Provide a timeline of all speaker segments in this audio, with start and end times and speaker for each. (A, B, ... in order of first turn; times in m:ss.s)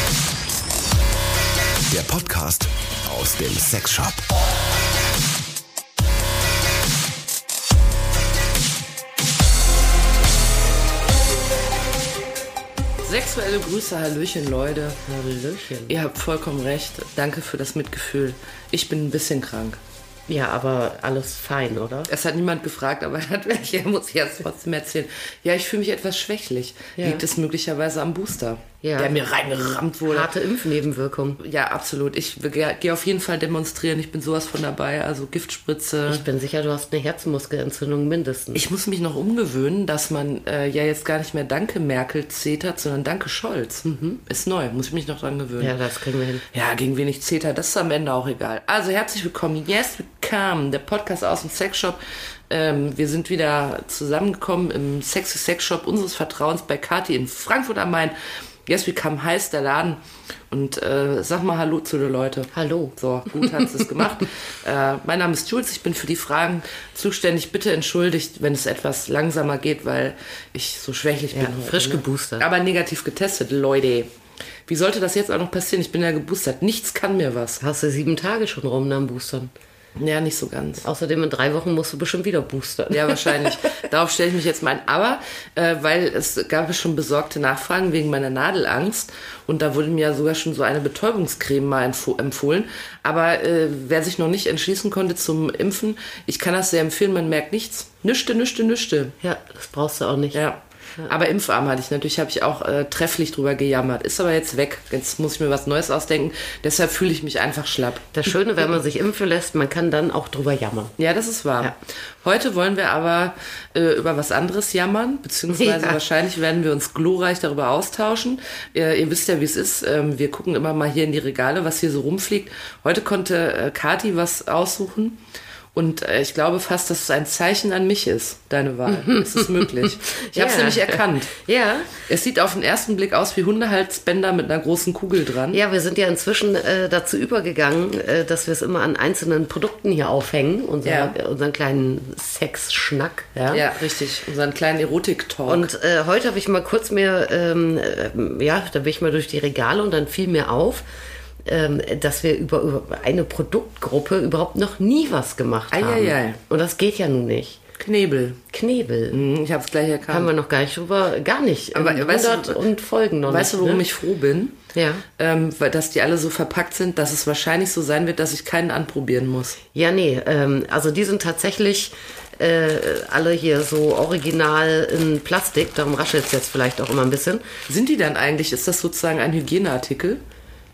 0:01.9-0:04.2 A
0:13.0-0:15.0 B
0:15.0-0:16.0 C
0:15.9-0:19.8 B
0:20.3-0:22.1 C
0:22.1-0:30.3 B
0:27.0-0:27.2 C
0:28.8-0:29.2 C
0:30.0-0:31.4 C
0:31.4-0:36.2 B
0:36.1-0:38.6 C
0:38.5-0:45.7 B
0:43.9-0:44.2 C
0:45.6-0:46.4 C
0:46.5-0:52.0 B
0:52.5-0:58.1 B
0:58.7-1:14.1 B
1:02.5-1:03.9 C
1:11.3-1:12.4 C
1:14.7-1:17.6 B
1:17.6-1:19.5 C
1:20.0-1:20.8 B
1:20.8-1:23.5 C
1:22.9-1:39.1 B
1:39.2-1:40.4 C
1:40.3-1:48.1 B
1:48.1-1:50.9 C
1:51.0-2:05.2 B
1:55.5-1:56.0 C
2:05.7-2:11.3 B
2:08.9-2:11.9 C
2:12.1-2:15.6 B
2:15.5-2:23.6 C
2:20.8-2:21.1 B
2:23.5-2:25.7 B
2:25.5-2:30.8 C
2:31.4-2:37.6 C
2:35.7-2:36.4 B
2:37.8-2:38.4 B
2:38.5-2:39.2 C
2:39.1-2:40.3 B
2:40.1-2:43.8 C
2:41.7-2:42.6 B
2:43.3-2:44.6 B
2:44.7-2:45.0 C
2:45.2-2:49.6 B
2:49.7-2:57.4 C
2:57.7-3:00.2 B